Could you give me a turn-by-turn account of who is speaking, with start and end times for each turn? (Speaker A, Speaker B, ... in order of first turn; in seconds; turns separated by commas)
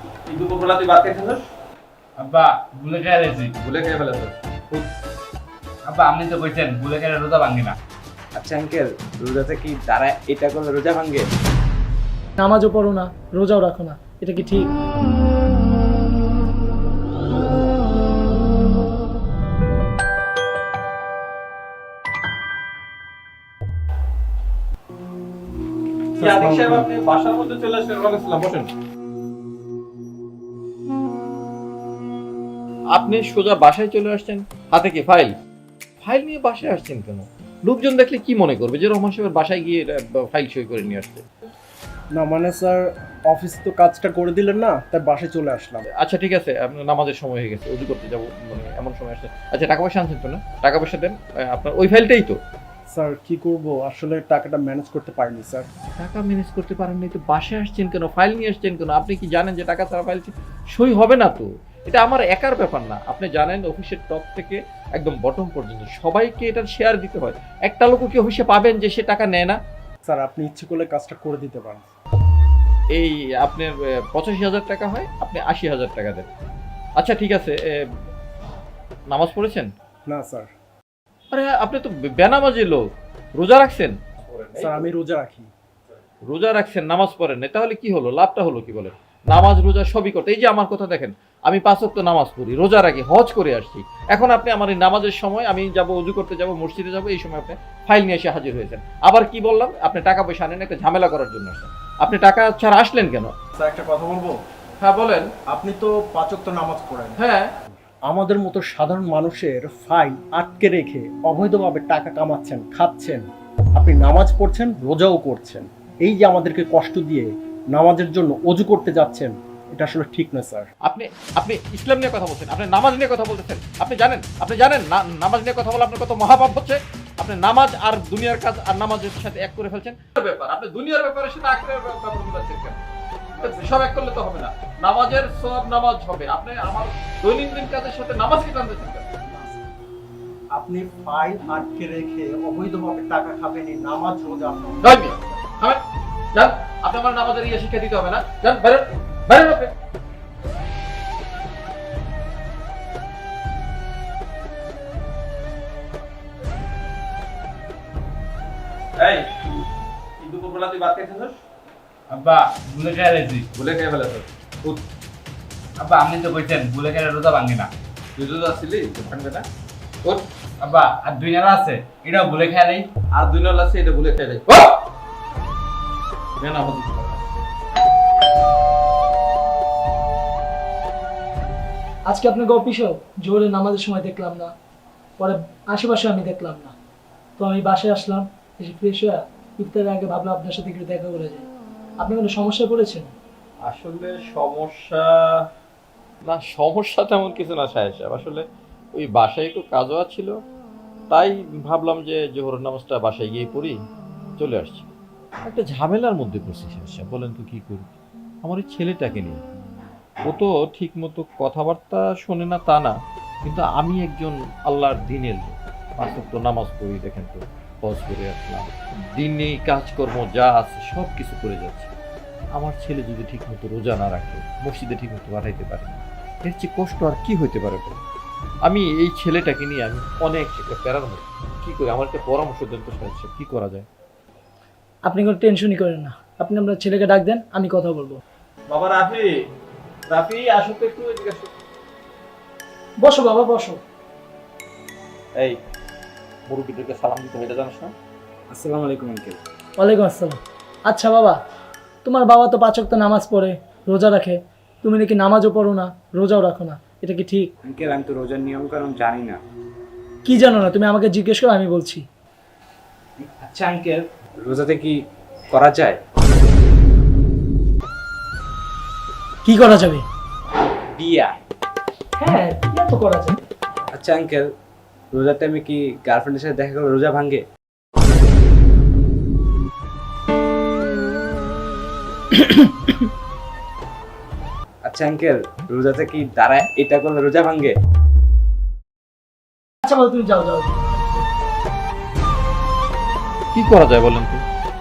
Speaker A: 0.3-1.4, Speaker B: 2.2-3.5, Speaker A: 3.6-4.9, Speaker B: 5.8-7.8, Speaker C: 8.3-11.2, Speaker D: 12.4-14.7, Speaker A: 26.2-28.7, Speaker E: 26.2-26.9, Speaker A: 32.9-35.3, Speaker A: 36.0-41.2, Speaker E: 42.1-45.9, Speaker A: 46.0-52.4, Speaker E: 52.9-55.6, Speaker A: 56.0-69.6, Speaker E: 70.0-71.9, Speaker A: 72.9-76.3, Speaker A: 77.0-77.8, Speaker A: 79.1-79.7, Speaker E: 80.1-80.5, Speaker A: 81.3-82.8, Speaker A: 83.3-84.8, Speaker E: 84.5-85.5, Speaker A: 86.3-103.3, Speaker E: 103.6-104.3, Speaker A: 104.8-105.2, Speaker E: 105.5-120.7, Speaker A: 107.2-107.5, Speaker A: 120.8-132.8, Speaker E: 133.4-133.8, Speaker A: 133.4-139.1, Speaker E: 139.2-139.6, Speaker E: 140.5-145.4, Speaker A: 144.8-145.8, Speaker A: 146.3-149.7, Speaker A: 159.0-159.3, Speaker A: 160.2-161.4, Speaker B: 162.1-163.5, Speaker A: 163.5-164.8, Speaker B: 165.8-167.7, Speaker A: 168.2-169.4, Speaker B: 170.6-172.9, Speaker A: 173.1-174.8, Speaker A: 176.4-177.2, Speaker D: 182.1-184.5, Speaker D: 185.2-186.7, Speaker D: 187.4-191.5, Speaker D: 192.0-193.1, Speaker A: 193.6-195.1, Speaker A: 196.2-198.4, Speaker A: 198.9-200.3, Speaker A: 201.1-203.8, Speaker A: 204.4-204.9, Speaker A: 205.4-207.9, Speaker A: 208.4-209.4, Speaker A: 210.3-212.9, Speaker A: 213.4-221.9, Speaker A: 222.6-228.0, Speaker A: 228.6-233.8, Speaker D: 235.0-238.2, Speaker A: 238.7-239.2, Speaker A: 240.1-241.5, Speaker D: 243.0-243.8, Speaker A: 246.5-247.9, Speaker C: 248.5-249.4, Speaker D: 249.8-251.4, Speaker D: 252.0-257.5, Speaker C: 257.6-259.4, Speaker D: 260.2-262.1, Speaker C: 263.2-265.0, Speaker C: 265.5-266.0, Speaker D: 269.4-270.0, Speaker C: 270.9-271.3, Speaker D: 272.2-273.4, Speaker C: 273.9-274.5, Speaker C: 275.1-277.4, Speaker D: 282.4-282.9, Speaker C: 284.8-287.7, Speaker D: 289.8-290.8, Speaker A: 293.5-294.4